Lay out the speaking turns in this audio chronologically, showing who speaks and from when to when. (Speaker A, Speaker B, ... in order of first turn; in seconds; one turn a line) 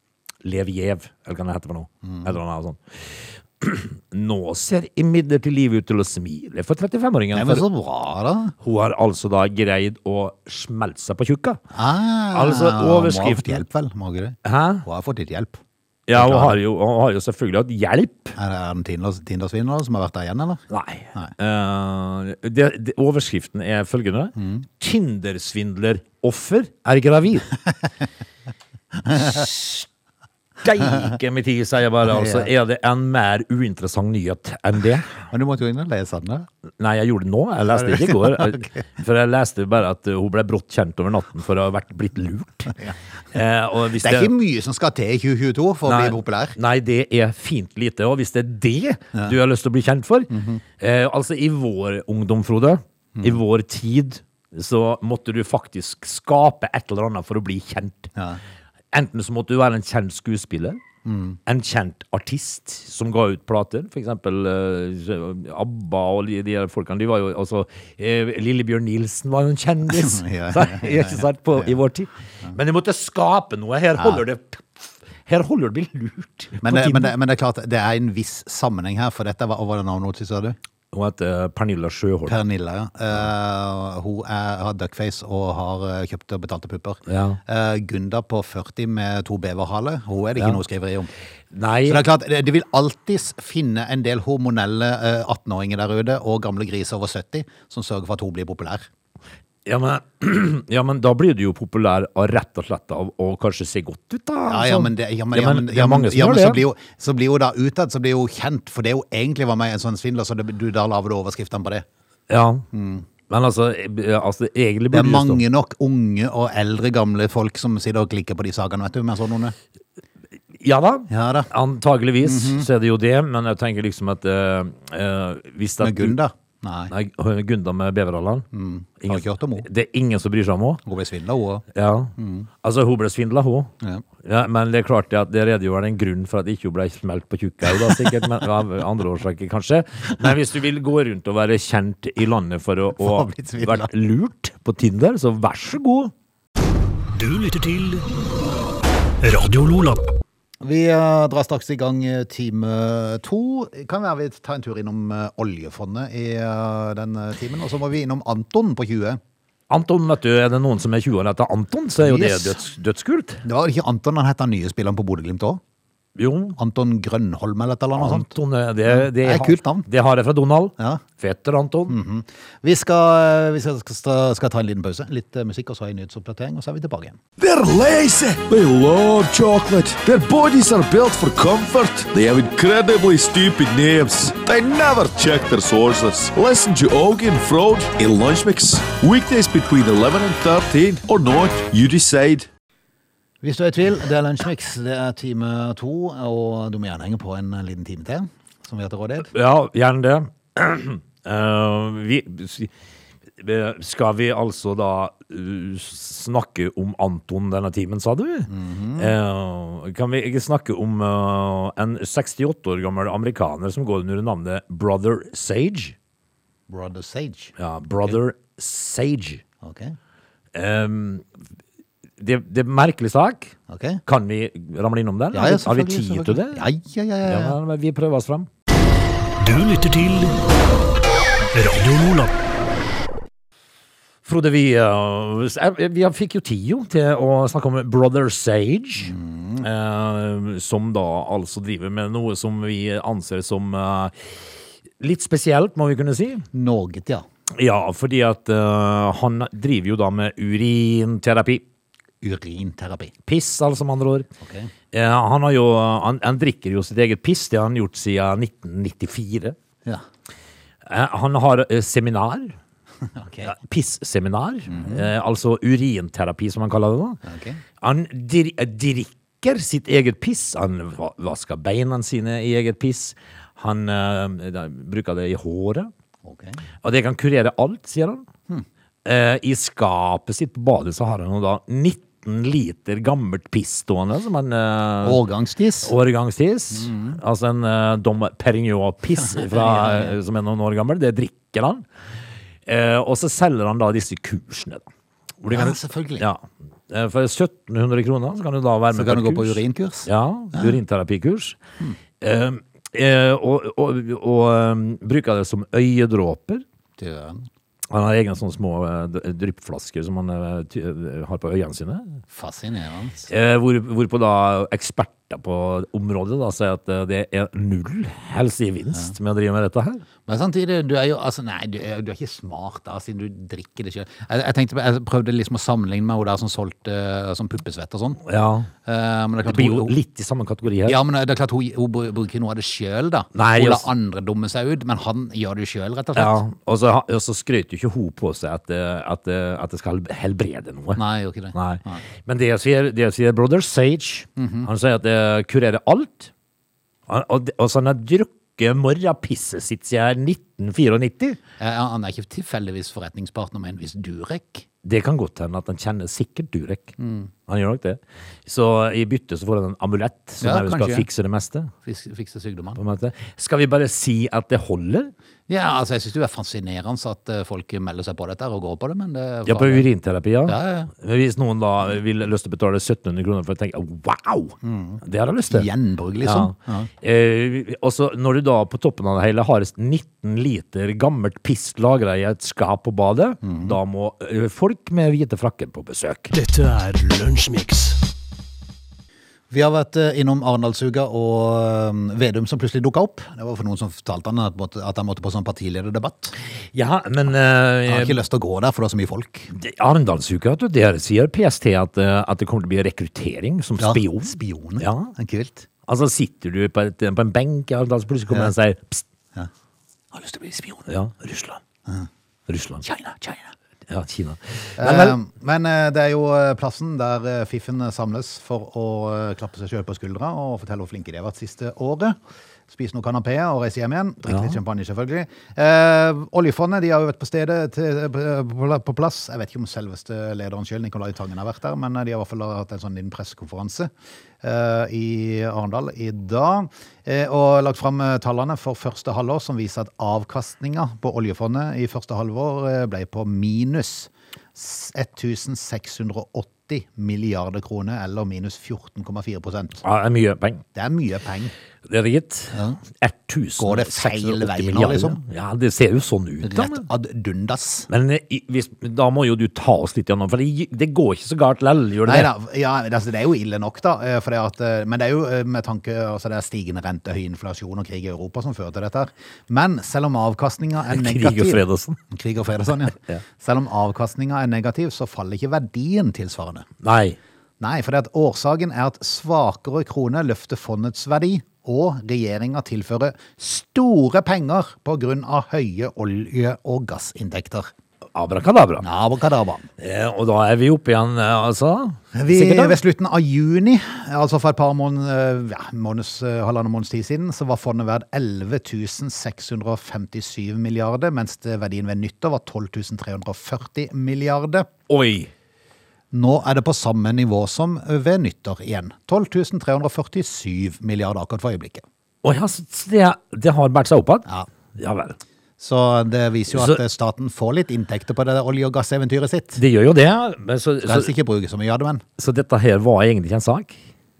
Speaker A: 0.4-7.7
Speaker B: 2.0-2.3
Speaker B: 7.3-8.5
Speaker A: 8.6-11.6
Speaker B: 11.7-15.6
Speaker A: 12.3-13.6
Speaker A: 14.4-14.8
Speaker A: 16.1-18.4
Speaker B: 16.1-16.6
Speaker B: 18.4-20.6
Speaker A: 20.7-27.5
Speaker B: 24.4-24.6
Speaker B: 29.1-29.4
Speaker A: 29.1-29.9
Speaker A: 30.6-35.1
Speaker B: 32.0-32.5
Speaker B: 35.3-36.5
Speaker A: 36.8-42.8
Speaker B: 37.7-38.7
Speaker A: 43.3-44.3
Speaker B: 44.0-46.6
Speaker A: 45.9-58.1
Speaker B: 50.3-50.6
Speaker A: 58.9-60.8
Speaker B: 61.0-61.4
Speaker A: 61.5-77.1
Speaker B: 69.9-71.7
Speaker B: 76.6-80.5
Speaker A: 80.9-82.4
Speaker B: 82.3-91.1
Speaker A: 87.1-87.4
Speaker A: 91.5-92.0
Speaker B: 91.8-98.9
Speaker A: 99.6-106.6
Speaker B: 104.5-111.8
Speaker A: 112.3-112.7
Speaker B: 112.7-113.0
Speaker A: 113.3-115.4
Speaker B: 114.9-119.5
Speaker A: 120.5-126.2
Speaker B: 121.1-121.5
Speaker B: 122.2-122.7
Speaker B: 125.8-126.9
Speaker A: 126.9-128.4
Speaker B: 128.5-129.7
Speaker A: 129.0-130.8
Speaker B: 130.8-131.6
Speaker A: 131.7-133.7
Speaker B: 132.2-132.5
Speaker A: 134.2-146.1
Speaker B: 143.0-143.9
Speaker C: 147.1-148.1
Speaker C: 149.2-150.0
Speaker B: 150.6-159.2
Speaker A: 159.7-163.4
Speaker B: 162.0-162.6
Speaker B: 163.4-165.6
Speaker A: 166.2-166.6
Speaker B: 166.6-168.3
Speaker A: 167.9-172.0
Speaker B: 168.8-169.9
Speaker B: 171.9-177.2
Speaker D: 177.4-192.5
Speaker B: 193.4-199.3
Speaker A: 199.3-202.7
Speaker A: 203.4-215.9
Speaker B: 208.5-209.1
Speaker B: 216.7-217.5
Speaker A: 217.6-219.4
Speaker B: 219.6-219.9
Speaker A: 220.5-221.3
Speaker A: 222.2-226.7
Speaker B: 223.7-224.0
Speaker B: 225.3-227.6
Speaker A: 227.2-228.5
Speaker C: 229.4-230.4
Speaker C: 231.5-232.3
Speaker A: 234.2-244.1
Speaker B: 239.0-239.7
Speaker A: 245.0-246.4
Speaker B: 246.5-247.2
Speaker A: 247.5-251.6
Speaker B: 252.2-253.1
Speaker A: 253.2-254.3
Speaker B: 254.4-254.7
Speaker A: 254.9-259.6
Speaker A: 260.9-262.6
Speaker B: 263.1-263.5
Speaker A: 263.4-267.2
Speaker B: 264.7-265.1
Speaker B: 267.2-267.6
Speaker A: 267.8-275.9
Speaker B: 276.2-276.6
Speaker A: 276.8-278.2
Speaker A: 279.0-285.2
Speaker B: 285.0-285.9
Speaker A: 285.8-291.8
Speaker B: 286.7-287.2
Speaker B: 289.2-290.1
Speaker A: 292.6-294.9
Speaker A: 295.4-301.6
Speaker B: 295.5-296.2
Speaker B: 298.9-300.7
Speaker A: 302.2-306.6
Speaker B: 307.0-307.5
Speaker A: 307.9-312.2
Speaker B: 312.3-313.3
Speaker A: 313.3-320.0
Speaker B: 320.3-328.2
Speaker A: 328.2-328.7
Speaker B: 328.8-329.9
Speaker A: 329.4-331.0
Speaker B: 330.9-336.4
Speaker A: 333.3-333.9
Speaker A: 336.1-341.0
Speaker B: 340.9-342.0
Speaker A: 341.5-346.3
Speaker B: 344.4-344.7
Speaker A: 347.1-351.4
Speaker B: 351.6-354.6
Speaker A: 354.8-356.9
Speaker B: 357.0-357.3
Speaker A: 357.5-361.7
Speaker B: 360.4-361.1
Speaker B: 361.8-362.8
Speaker A: 362.8-365.1
Speaker B: 365.5-369.9
Speaker A: 369.4-375.7
Speaker B: 370.5-370.9
Speaker B: 374.6-376.9
Speaker A: 376.2-386.3
Speaker B: 383.4-383.8
Speaker C: 386.3-388.0
Speaker B: 389.5-396.3
Speaker A: 396.7-398.2
Speaker B: 397.9-399.5
Speaker A: 399.5-405.1
Speaker B: 403.8-405.7
Speaker A: 405.9-409.0
Speaker B: 410.1-410.9
Speaker A: 410.9-411.6
Speaker A: 412.5-412.8
Speaker B: 412.8-413.5
Speaker A: 413.9-415.2
Speaker B: 414.8-422.2
Speaker B: 422.7-433.9
Speaker A: 424.3-424.6
Speaker B: 434.4-449.8
Speaker A: 449.8-450.6
Speaker B: 450.7-451.5
Speaker A: 451.9-456.9
Speaker B: 453.6-455.2
Speaker B: 456.4-457.9
Speaker A: 457.9-462.3
Speaker B: 462.0-476.7
Speaker A: 470.9-472.0
Speaker A: 476.8-477.2
Speaker B: 477.6-487.7
Speaker A: 488.1-488.8
Speaker B: 488.8-489.7
Speaker A: 489.8-492.8
Speaker B: 492.1-504.7
Speaker A: 504.9-505.3
Speaker B: 506.1-511.8
Speaker A: 512.2-515.1
Speaker B: 515.6-519.6
Speaker A: 516.5-516.8
Speaker A: 519.5-521.1
Speaker B: 520.8-522.0
Speaker A: 522.2-523.8